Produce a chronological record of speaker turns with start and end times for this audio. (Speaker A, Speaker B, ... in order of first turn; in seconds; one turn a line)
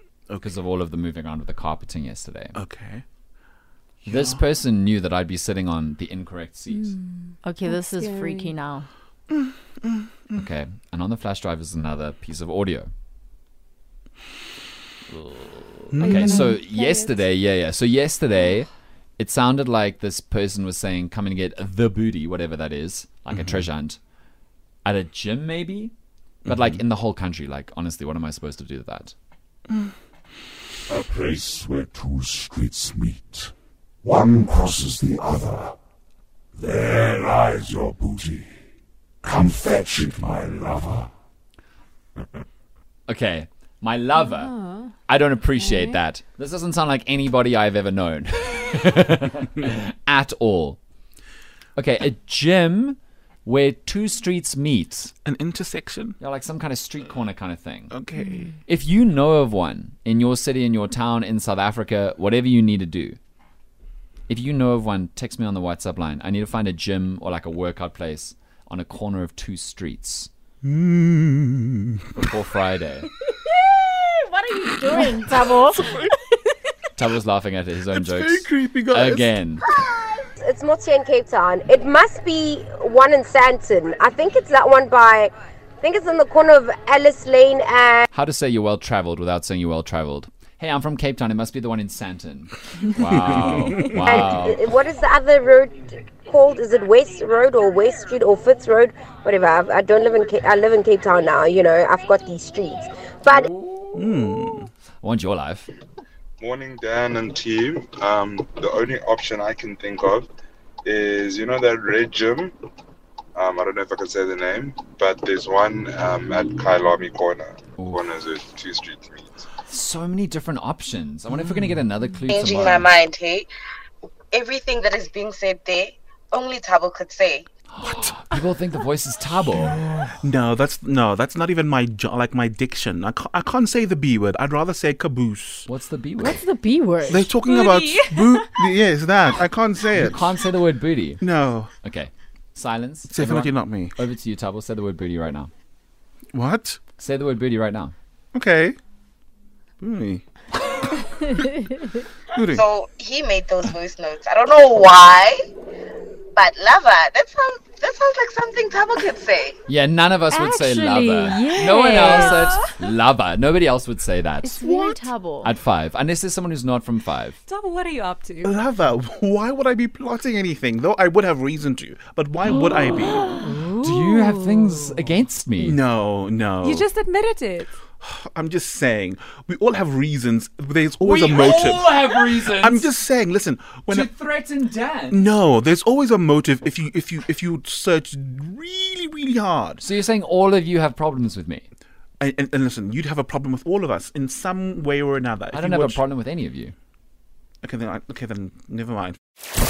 Speaker A: 0.4-2.6
Speaker B: 2.6-3.0
Speaker A: 4.0-7.0
Speaker B: 4.1-4.4
Speaker C: 6.8-8.5
Speaker D: 7.4-8.9
Speaker B: 9.8-10.4
Speaker A: 10.4-12.9
Speaker A: 15.1-24.0
Speaker B: 15.9-16.6
Speaker C: 16.6-17.2
Speaker A: 24.9-25.9
Speaker A: 26.5-29.1
Speaker B: 26.5-26.8
Speaker E: 30.9-35.8
Speaker E: 36.6-38.5
Speaker E: 39.2-41.1
Speaker A: 43.1-50.8
Speaker C: 44.4-44.7
Speaker A: 51.8-55.1
Speaker B: 55.2-56.2
Speaker A: 56.2-58.0
Speaker B: 57.9-58.6
Speaker A: 58.7-63.2
Speaker A: 64.3-70.3
Speaker B: 70.6-72.0
Speaker A: 72.2-73.1
Speaker D: 73.6-76.0
Speaker B: 74.9-76.1
Speaker A: 77.0-79.7
Speaker B: 77.9-79.9
Speaker F: 80.4-88.0
Speaker A: 88.1-94.7
Speaker B: 93.2-94.0
Speaker F: 93.9-103.5
Speaker A: 103.5-104.0
Speaker B: 103.9-104.7
Speaker A: 105.0-105.7
Speaker G: 106.4-110.2
Speaker G: 110.9-112.5
Speaker G: 113.4-119.2
Speaker A: 117.8-118.1
Speaker A: 119.7-123.0
Speaker H: 122.3-123.5
Speaker H: 124.3-127.5
Speaker A: 127.7-129.7
Speaker B: 129.5-135.7
Speaker A: 135.7-136.4
Speaker D: 136.2-137.5
Speaker B: 137.1-140.2
Speaker C: 137.4-138.7
Speaker A: 139.9-145.5
Speaker B: 141.2-141.7
Speaker B: 143.1-144.0
Speaker B: 146.3-146.8
Speaker A: 147.0-147.9
Speaker B: 148.3-148.8
Speaker B: 149.8-150.2
Speaker B: 152.3-152.7
Speaker H: 152.6-155.4
Speaker H: 156.3-159.6
Speaker A: 159.7-164.6
Speaker D: 160.3-162.4
Speaker C: 161.7-162.7
Speaker D: 164.4-165.5
Speaker C: 164.6-165.0
Speaker A: 165.4-167.4
Speaker C: 167.5-168.5
Speaker B: 168.4-173.4
Speaker A: 172.7-175.8
Speaker D: 173.3-173.7
Speaker C: 173.4-174.8
Speaker B: 175.6-176.9
Speaker C: 176.6-177.7
Speaker B: 178.0-184.1
Speaker A: 181.0-182.9
Speaker A: 183.9-185.2
Speaker B: 185.1-189.8
Speaker A: 189.8-191.7
Speaker B: 192.2-196.0
Speaker A: 195.5-196.8
Speaker B: 197.6-199.2